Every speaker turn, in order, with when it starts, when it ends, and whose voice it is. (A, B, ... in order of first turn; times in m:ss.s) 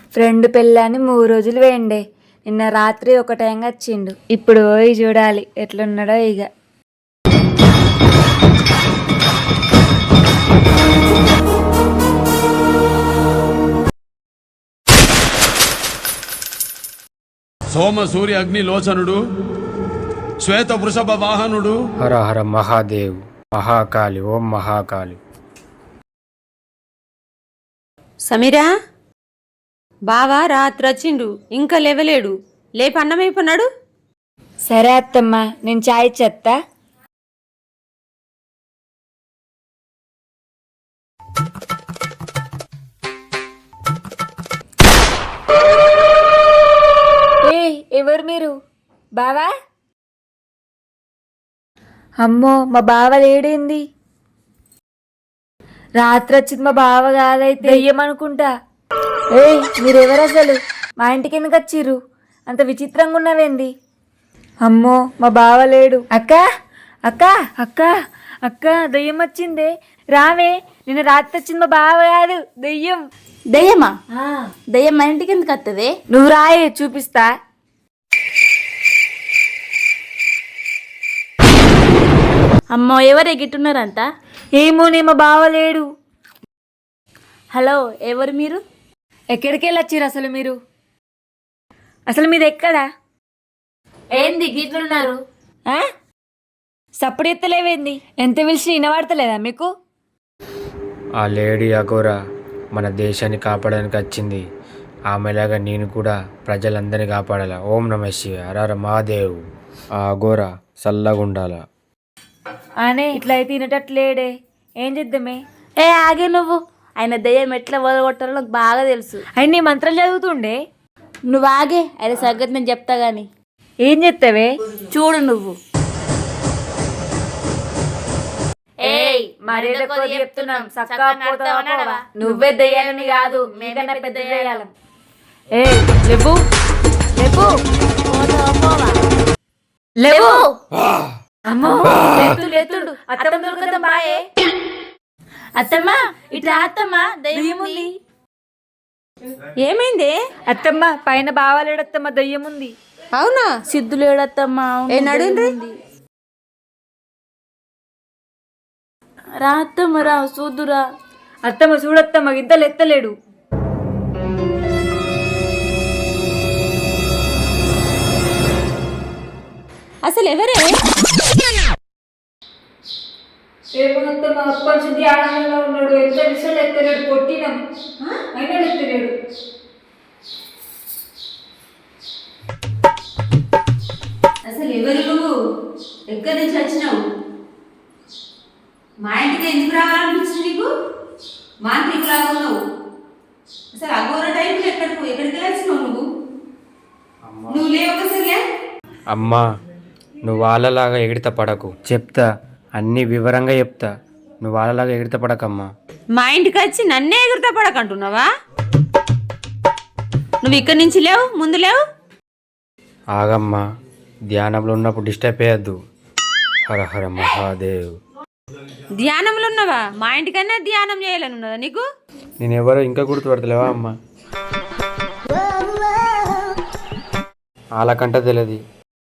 0:00.2-0:06.5 A
0:17.7-0:19.2 B
0:20.4-0:21.8 B
0:22.0-0:25.2 C
0:28.3-0:28.7 D
0:30.1-0:33.7 D
0:34.7-0:36.6 A
0:47.4-0:48.5 A
0:49.2-0:49.5 A
0:52.2-0:53.8 A
0:56.0-0:58.5 A
0:59.4-1:02.0 A
1:02.5-1:03.7 A
1:04.7-1:06.4 A
1:07.1-1:07.9 A
1:08.4-1:13.0 A
1:13.5-1:14.0 E
1:14.7-1:15.9 E
1:16.1-1:17.3 A
1:22.7-1:24.0 E
1:24.6-1:25.8 A
1:27.5-1:28.6 E
1:29.3-1:30.6 A
1:32.1-1:32.8 A
1:34.2-1:35.1 A
1:37.0-1:39.7 A
1:41.2-1:42.2 C
1:42.8-1:44.4 C
1:45.1-1:49.4 C
1:50.0-1:51.6 C
1:52.8-1:54.3 A
1:54.8-1:55.4 A
1:55.8-1:59.2 E
1:59.4-2:00.6 A
2:01.3-2:03.3 E
2:03.9-2:04.5 A
2:04.8-2:05.6 E
2:08.8-2:14.7 E
2:08.9-2:14.7 A
2:15.5-2:15.9 A
2:16.0-2:16.4 E
2:17.2-2:17.5 A
2:18.1-2:19.0 E
2:20.0-2:20.5 A
2:20.1-2:20.6 E
2:21.5-2:22.4 A
2:21.8-2:24.3 E
2:23.1-2:24.2 A
2:25.6-2:27.9 E
2:27.3-2:27.9 A
2:29.6-2:30.2 D
2:30.5-2:32.7 A
2:33.2-2:33.5 D
2:33.7-2:35.4 E
2:34.9-2:35.5 D
2:39.4-2:40.8 E
2:41.5-2:43.1 A
2:50.1-2:50.7 D
2:53.8-2:57.6 A
2:58.4-2:59.1 A
3:04.5-3:05.3 D
3:06.1-3:07.0 D
3:09.0-3:10.7 D
3:11.7-3:12.6 D
3:13.8-3:16.0 D
3:17.2-3:17.6 C
3:17.5-3:18.4 D
3:19.1-3:19.4 C
3:20.3-3:22.3 C
3:22.8-3:23.9 C
3:24.4-3:25.7 C
3:26.2-3:28.3 D
3:30.4-3:31.8 D
3:33.2-3:33.6 C
3:34.3-3:35.8 C
3:36.7-3:37.9 C
3:39.0-3:41.9 D
3:42.4-3:43.9 C
3:47.8-3:48.6 C